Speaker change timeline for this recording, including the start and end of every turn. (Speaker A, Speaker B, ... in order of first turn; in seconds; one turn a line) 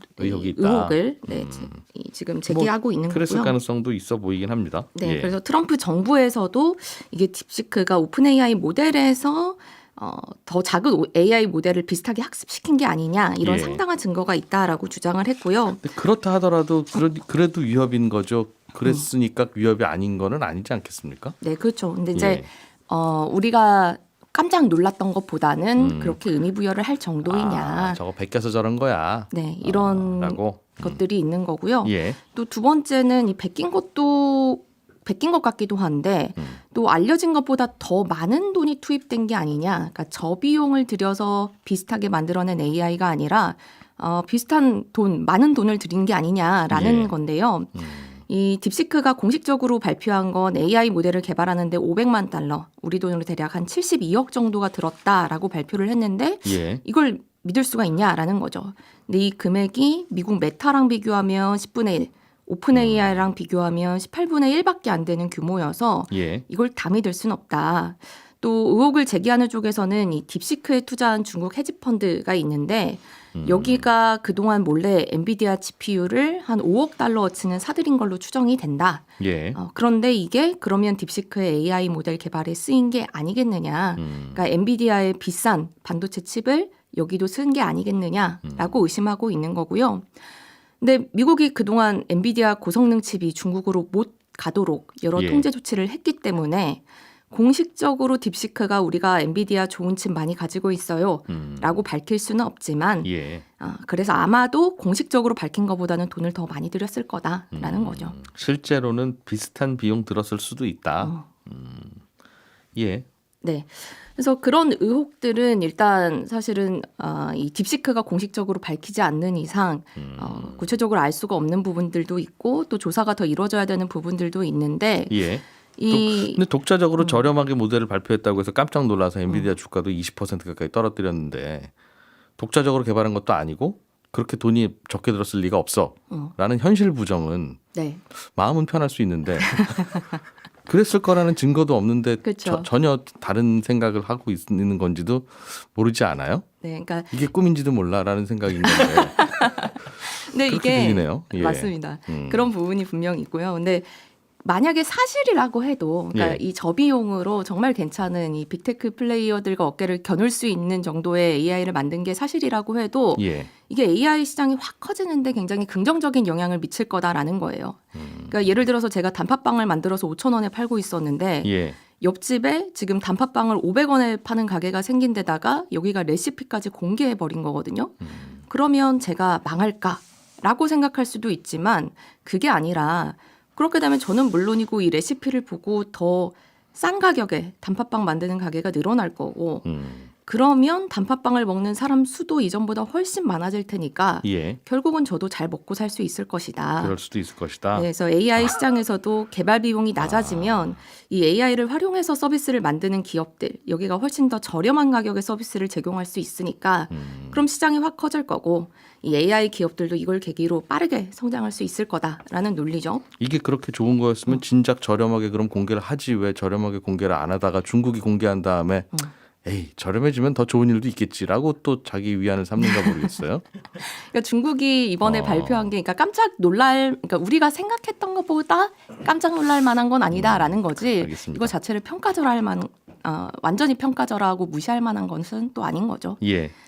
Speaker A: 0.2-3.5
Speaker B: 0.2-1.8
Speaker B: 2.5-5.3
Speaker A: 5.0-15.8
Speaker B: 13.4-13.8
Speaker B: 15.8-21.4
Speaker A: 21.4-28.0
Speaker B: 22.1-22.4
Speaker B: 25.8-26.2
Speaker B: 27.2-31.0
Speaker A: 29.3-90.2
Speaker B: 31.8-32.2
Speaker B: 46.7-47.1
Speaker B: 47.7-48.2
Speaker B: 56.5-56.8
Speaker B: 62.7-63.2
Speaker B: 66.1-66.5
Speaker B: 73.3-73.8
Speaker B: 79.2-79.6
Speaker B: 84.0-84.4
Speaker B: 88.4-88.8
Speaker A: 90.8-108.2
Speaker B: 95.2-95.5
Speaker B: 101.3-101.8
Speaker B: 103.0-103.4
Speaker B: 107.5-112.0
Speaker A: 111.0-111.3
Speaker B: 112.8-113.1
Speaker A: 113.4-126.4
Speaker B: 120.0-120.7
Speaker B: 125.1-131.7
Speaker A: 127.0-127.3
Speaker B: 132.4-140.1
Speaker A: 137.7-138.0
Speaker A: 139.5-140.2
Speaker B: 140.7-146.5
Speaker A: 142.2-142.7
Speaker A: 146.6-147.1
Speaker B: 147.1-149.9
Speaker A: 148.7-189.7
Speaker B: 150.4-152.5
Speaker B: 156.1-156.4
Speaker B: 163.2-163.5
Speaker B: 167.9-168.4
Speaker B: 171.4-171.8
Speaker B: 178.0-178.4
Speaker B: 189.7-190.1
Speaker A: 190.2-197.0
Speaker B: 194.2-194.6
Speaker B: 196.8-197.9
Speaker A: 197.7-213.1
Speaker B: 200.0-200.8
Speaker B: 206.9-207.4
Speaker B: 213.2-223.4
Speaker A: 222.7-223.1
Speaker A: 223.8-236.2
Speaker B: 225.0-225.7
Speaker B: 230.1-231.6
Speaker B: 236.2-236.5